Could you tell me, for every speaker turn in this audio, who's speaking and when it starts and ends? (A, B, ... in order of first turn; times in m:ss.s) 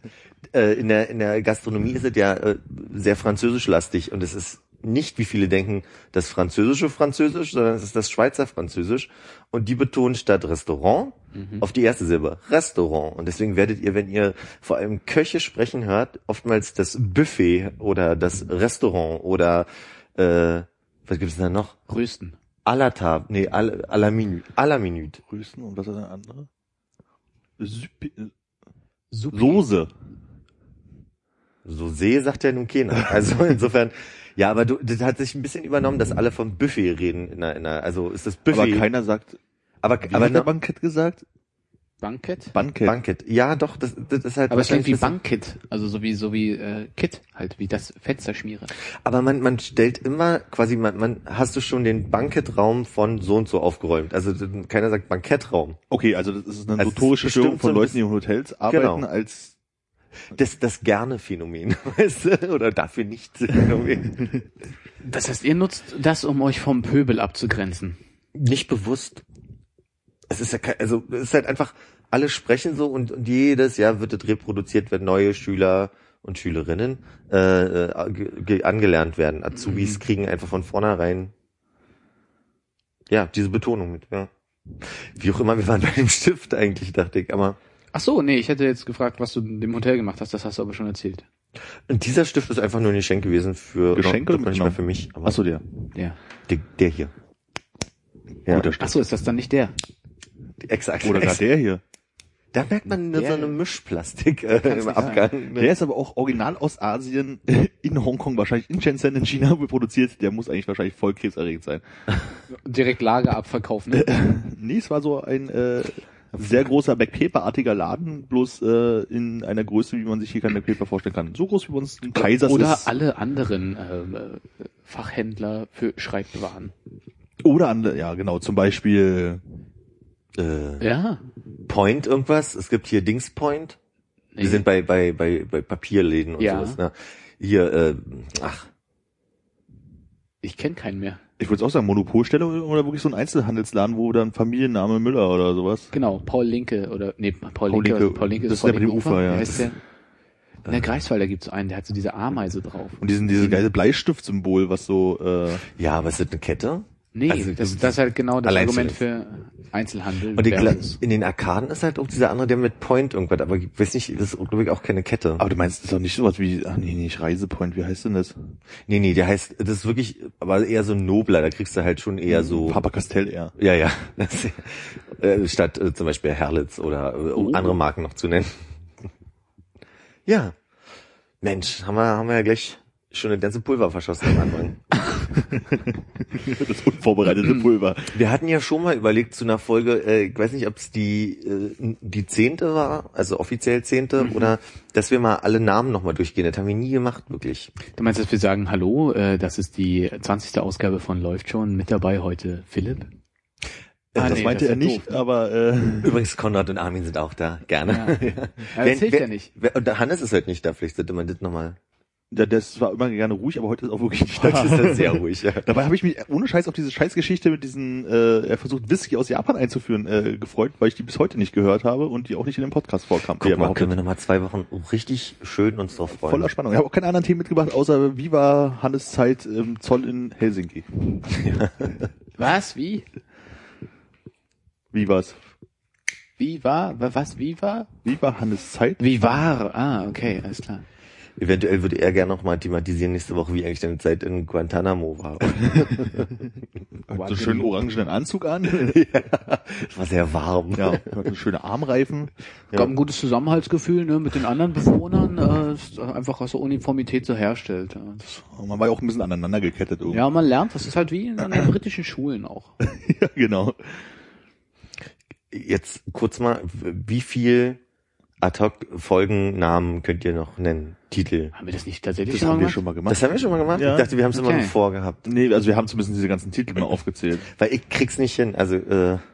0:00.5-0:21.8 A
0:11.3-0:11.6 B
0:21.9-0:22.4 B
0:22.6-0:25.2 A
0:25.3-0:26.5 C
0:27.6-0:28.3 C
0:29.1-0:29.6 B
0:29.3-0:29.9 C
0:31.6-0:38.8 A
0:38.5-0:39.4 C
0:39.8-0:40.5 A
0:40.0-0:41.2 C
0:42.0-0:42.5 B
0:42.5-0:43.0 C
0:42.8-0:45.2 A
0:44.5-0:48.7 B
0:49.0-0:55.8 A
0:55.9-0:59.5 C
0:56.8-0:58.0 A
0:58.7-0:59.0 A
1:00.3-1:04.3 A
1:05.0-1:08.0 B
1:08.3-1:09.2 A
1:10.3-1:21.3 A
1:19.5-1:20.0 B
1:23.1-1:27.6 A
1:27.9-1:31.2 B
1:31.9-1:35.4 A
1:33.9-1:35.6 C
1:36.5-1:37.1 A
1:38.4-1:38.7 A
1:38.5-1:39.0 C
1:38.8-1:39.8 B
1:40.6-1:41.4 A
1:41.0-1:41.8 C
1:42.5-1:45.7 A
1:43.1-1:43.6 B
1:44.6-1:45.2 B
1:45.5-1:51.8 C
1:52.5-1:54.2 B
1:53.9-2:02.9 C
2:02.1-2:06.7 B
2:07.4-2:09.4 C
2:10.3-2:10.8 A
2:10.8-2:11.2 B
2:11.7-2:13.8 A
2:14.3-2:14.6 B
2:14.4-2:18.7 A
2:16.4-2:16.8 B
2:20.4-2:21.2 B
2:21.4-2:25.9 C
2:25.9-2:29.8 B
2:27.7-2:29.7 C
2:30.7-2:33.6 B
2:33.0-2:35.6 C
2:35.7-2:39.0 A
2:37.1-2:41.0 B
2:40.3-2:45.4 A
2:45.4-2:48.4 C
2:48.9-2:52.8 A
2:52.3-2:53.5 C
2:53.6-2:58.7 A
2:57.4-2:57.8 C
3:00.2-3:00.6 A
3:01.4-3:05.1 A
3:05.5-3:08.2 C
3:08.1-3:17.7 A
3:17.9-3:23.1 B
3:24.1-3:24.5 A
3:24.2-3:25.2 B
3:24.2-3:26.2 C
3:26.0-3:31.8 A
3:27.9-3:29.5 B
3:32.3-3:43.9 C
3:34.4-3:35.7 A
3:43.4-3:46.5 A
3:46.1-3:51.5 C
3:51.4-3:51.9 A
3:52.4-3:53.0 B
3:54.9-3:55.4 C
3:56.4-3:57.9 B
3:58.0-3:59.0 C
3:59.0-4:00.8 B
4:01.4-4:06.3 A
4:05.6-4:05.9 C
4:07.1-4:07.7 B
4:07.1-4:09.1 C
4:08.6-4:11.1 A
4:10.8-4:12.3 C
4:12.7-4:18.4 B
4:18.4-4:20.2 C
4:20.1-4:22.7 B
4:22.8-4:24.0 C
4:25.5-4:27.8 A
4:28.4-4:31.5 A
4:31.5-4:32.8 B
4:32.3-4:33.2 C
4:33.1-4:35.2 A
4:33.7-4:34.1 C
4:34.3-4:34.7 B
4:35.2-4:37.5 C
4:37.5-4:39.2 A